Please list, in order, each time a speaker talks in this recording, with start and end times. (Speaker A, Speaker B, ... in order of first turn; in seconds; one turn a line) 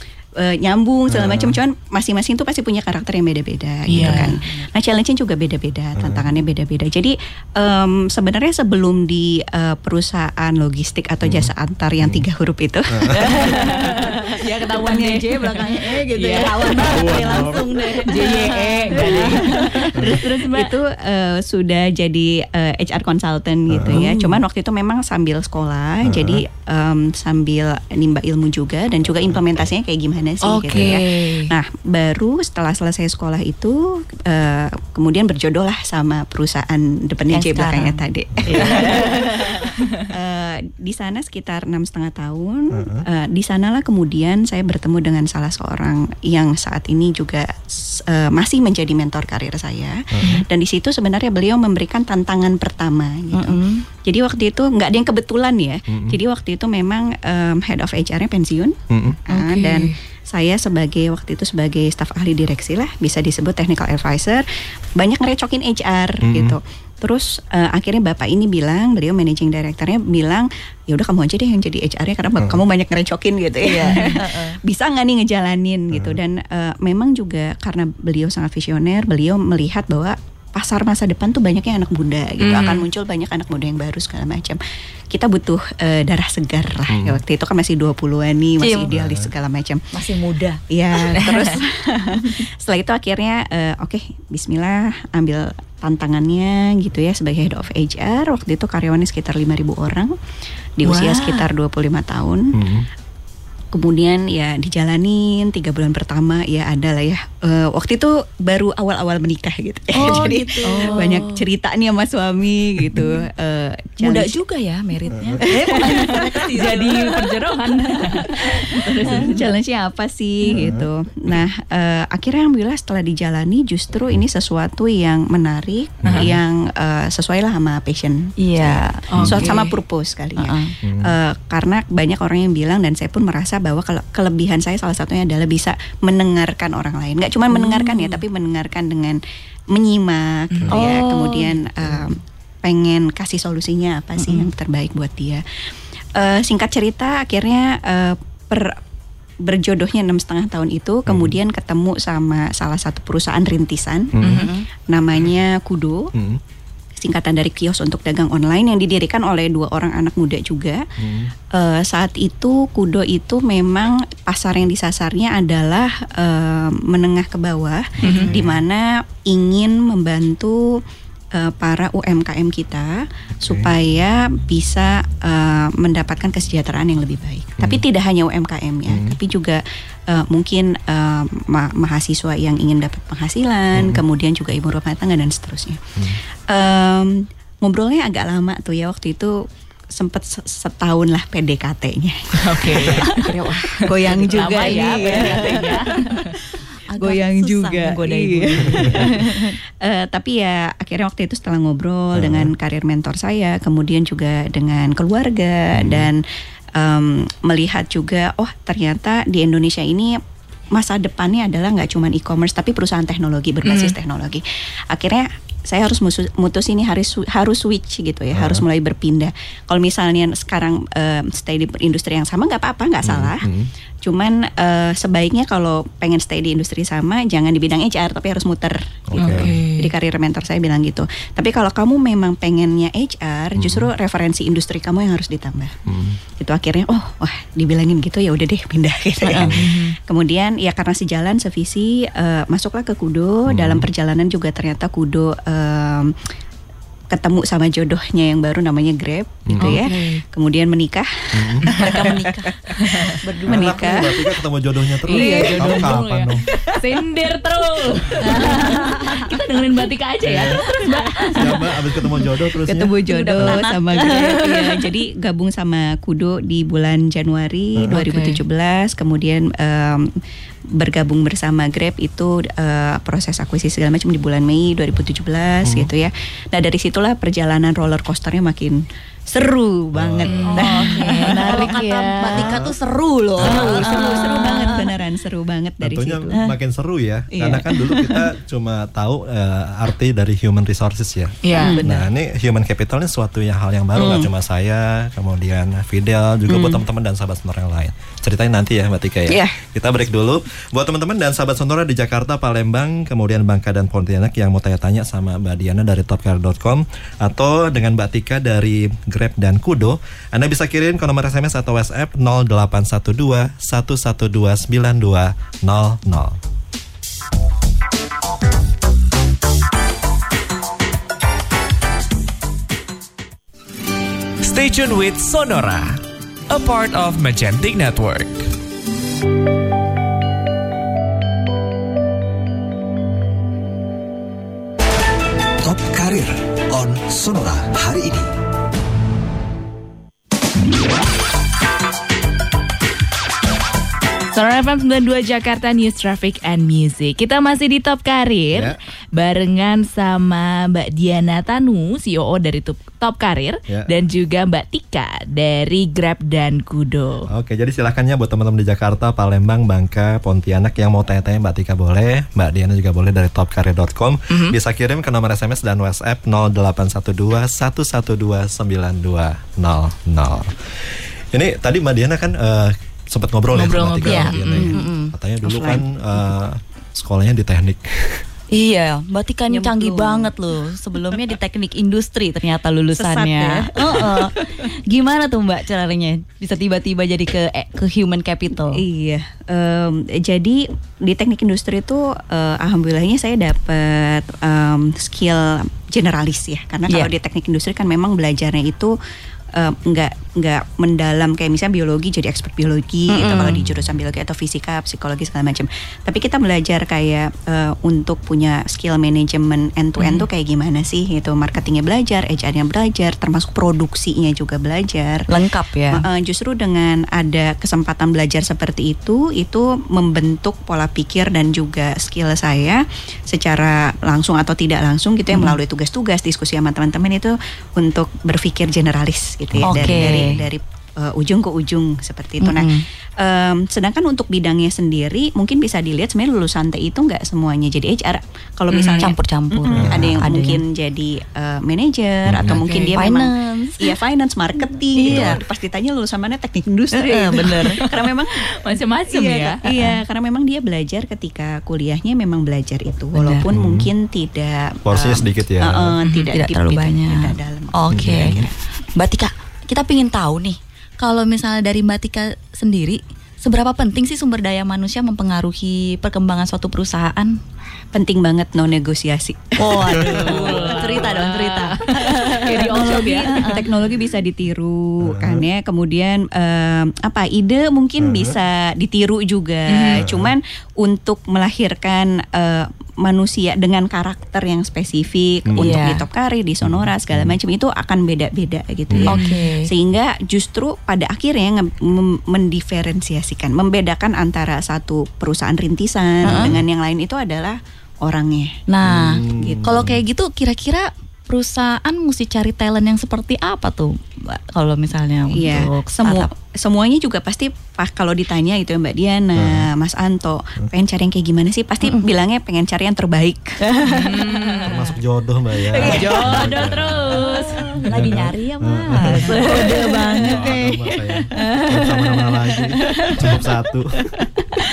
Speaker A: 0.4-14.0
Speaker B: 1.1-1.6
Speaker C: 3.9-4.4
Speaker D: 4.0-4.7
Speaker B: 6.0-6.4
Speaker B: 11.2-12.3
Speaker B: 12.9-13.3
Speaker C: 13.2-20.7
Speaker D: 13.4-19.9
Speaker B: 16.8-17.7
Speaker A: 18.9-58.8
Speaker B: 23.7-24.1
Speaker B: 26.0-26.4
Speaker B: 29.3-29.6
Speaker D: 30.4-31.3
Speaker C: 30.6-31.4
Speaker D: 37.3-38.0
Speaker B: 38.3-38.6
Speaker C: 38.5-39.9
Speaker D: 38.6-39.1
Speaker B: 42.7-43.1
Speaker B: 50.1-50.5
Speaker D: 53.3-53.9
Speaker B: 55.9-56.2
Speaker B: 58.9-59.2
Speaker A: 59.3-84.6
Speaker C: 59.3-59.9
Speaker B: 66.2-66.6
Speaker D: 73.6-74.6
Speaker C: 73.9-74.2
Speaker B: 75.9-76.2
Speaker C: 82.4-82.8
Speaker A: 85.1-89.9
Speaker B: 86.9-87.2
Speaker D: 88.6-88.9
Speaker B: 88.9-89.3
Speaker D: 89.9-90.6
Speaker A: 90.7-100.1
Speaker D: 91.1-91.5
Speaker A: 100.8-102.6
Speaker D: 100.8-101.5
Speaker B: 102.5-102.9
Speaker A: 103.7-114.4
Speaker D: 109.9-111.4
Speaker C: 110.0-111.2
Speaker D: 114.0-117.3
Speaker B: 115.1-115.4
Speaker A: 115.4-116.2
Speaker C: 116.5-119.5
Speaker D: 117.8-119.4
Speaker A: 118.3-139.2
Speaker B: 120.5-120.9
Speaker B: 126.0-126.4
Speaker C: 126.0-126.3
Speaker D: 128.4-129.5
Speaker C: 129.1-129.7
Speaker B: 129.2-129.5
Speaker D: 130.4-130.8
Speaker B: 130.8-131.1
Speaker D: 137.5-138.2
Speaker A: 139.7-145.4
Speaker C: 140.5-140.8
Speaker D: 140.7-141.6
Speaker B: 141.8-142.1
Speaker D: 144.2-144.5
Speaker A: 146.2-148.8
Speaker A: 149.4-154.1
Speaker B: 151.1-151.4
Speaker B: 154.1-154.5
Speaker C: 154.2-154.5
Speaker D: 154.2-154.7
Speaker A: 154.9-156.1
Speaker B: 156.1-156.4
Speaker A: 157.0-160.8
Speaker B: 161.0-161.3
Speaker A: 161.5-170.8
Speaker B: 168.0-168.6
Speaker C: 168.0-168.3
Speaker A: 171.3-185.9
Speaker B: 173.4-173.7
Speaker B: 178.9-179.2
Speaker B: 183.8-184.0
Speaker A: 186.5-189.4
Speaker A: 189.9-206.2
Speaker C: 192.4-193.3
Speaker C: 194.2-196.3
Speaker D: 194.4-195.7
Speaker D: 196.9-199.5
Speaker B: 198.7-199.2
Speaker B: 202.1-202.5
Speaker B: 205.8-206.1
Speaker A: 206.8-210.2
Speaker A: 210.8-223.5
Speaker C: 213.7-213.9
Speaker B: 218.3-218.7
Speaker B: 223.0-223.7
Speaker A: 224.0-235.8
Speaker B: 229.1-229.6
Speaker C: 229.2-229.9
Speaker B: 233.6-233.9
Speaker B: 235.9-236.2
Speaker A: 236.4-246.2
Speaker D: 239.2-239.6
Speaker B: 239.4-239.7
Speaker C: 239.6-239.9
Speaker B: 243.5-243.9
Speaker A: 247.1-254.3
Speaker B: 249.4-249.8
Speaker C: 249.6-250.2
Speaker B: 251.3-251.8
Speaker D: 251.7-254.1
Speaker B: 253.5-256.4
Speaker C: 255.1-261.6
Speaker A: 255.1-255.8
Speaker D: 258.2-259.3
Speaker B: 260.2-260.6
Speaker B: 261.4-263.6
Speaker A: 262.7-270.1
Speaker D: 263.1-264.8
Speaker B: 267.8-268.0
Speaker C: 267.9-268.4
Speaker A: 270.8-282.5
Speaker B: 275.6-275.9
Speaker B: 279.9-280.7
Speaker C: 280.2-282.4
Speaker D: 280.5-284.9
Speaker B: 282.3-282.7
Speaker B: 283.4-284.1
Speaker A: 283.4-286.4
Speaker C: 283.9-284.4
Speaker B: 285.8-316.4
Speaker A: 287.4-288.2
Speaker C: 291.4-291.8
Speaker A: 291.6-291.8
Speaker D: 291.6-292.1
Speaker A: 294.0-294.3
Speaker A: 296.5-296.8
Speaker A: 299.3-299.6
Speaker E: 324.4-328.5
Speaker F: 335.6-338.3
Speaker C: 344.3-357.3
Speaker B: 348.5-348.8
Speaker B: 357.3-378.2
Speaker C: 373.5-374.7
Speaker D: 374.1-375.1
Speaker A: 374.5-374.9
Speaker A: 375.4-375.9
Speaker D: 378.5-388.8
Speaker A: 379.5-380.3
Speaker A: 383.0-384.4
Speaker A: 388.7-398.9
Speaker A: 399.6-415.3
Speaker D: 403.1-403.6
Speaker B: 403.6-403.9
Speaker D: 410.0-410.3
Speaker D: 415.3-416.1
Speaker A: 415.9-448.5
Speaker D: 425.3-425.6
Speaker B: 429.5-430.5
Speaker D: 429.6-430.4
Speaker D: 432.4-432.9
Speaker D: 438.9-440.6
Speaker B: 439.7-440.2
Speaker B: 442.3-442.6
Speaker C: 442.5-443.0
Speaker D: 442.9-443.9
Speaker D: 445.0-445.4
Speaker B: 445.1-445.4
Speaker D: 446.9-447.8
Speaker C: 447.4-448.1
Speaker C: 448.6-449.6
Speaker A: 449.1-458.5
Speaker D: 449.7-450.0
Speaker D: 453.2-453.5
Speaker B: 453.5-453.9
Speaker B: 454.9-456.0
Speaker C: 456.1-456.3
Speaker D: 456.3-467.4
Speaker B: 457.9-458.5
Speaker A: 467.9-471.2
Speaker D: 469.6-473.7
Speaker B: 469.9-470.5
Speaker C: 470.1-473.5
Speaker A: 471.9-498.6
Speaker B: 475.1-475.4
Speaker B: 478.0-478.4
Speaker C: 479.7-480.0
Speaker B: 480.0-480.3
Speaker B: 485.5-485.8
Speaker D: 485.6-486.1
Speaker B: 486.6-487.4
Speaker B: 488.9-489.1
Speaker C: 489.1-489.5
Speaker D: 489.1-489.7
Speaker B: 496.2-496.6
Speaker D: 496.2-496.5
Speaker D: 498.7-506.3
Speaker B: 498.8-500.0
Speaker A: 499.2-499.7
Speaker A: 505.3-513.6
Speaker B: 509.4-509.7
Speaker D: 513.6-514.8
Speaker C: 513.9-514.9
Speaker B: 514.6-517.4
Speaker C: 515.7-518.1
Speaker D: 515.8-516.4
Speaker D: 517.6-520.6
Speaker B: 517.9-519.5
Speaker C: 519.0-519.9
Speaker A: 519.3-520.6
Speaker B: 520.1-524.2
Speaker D: 521.4-522.0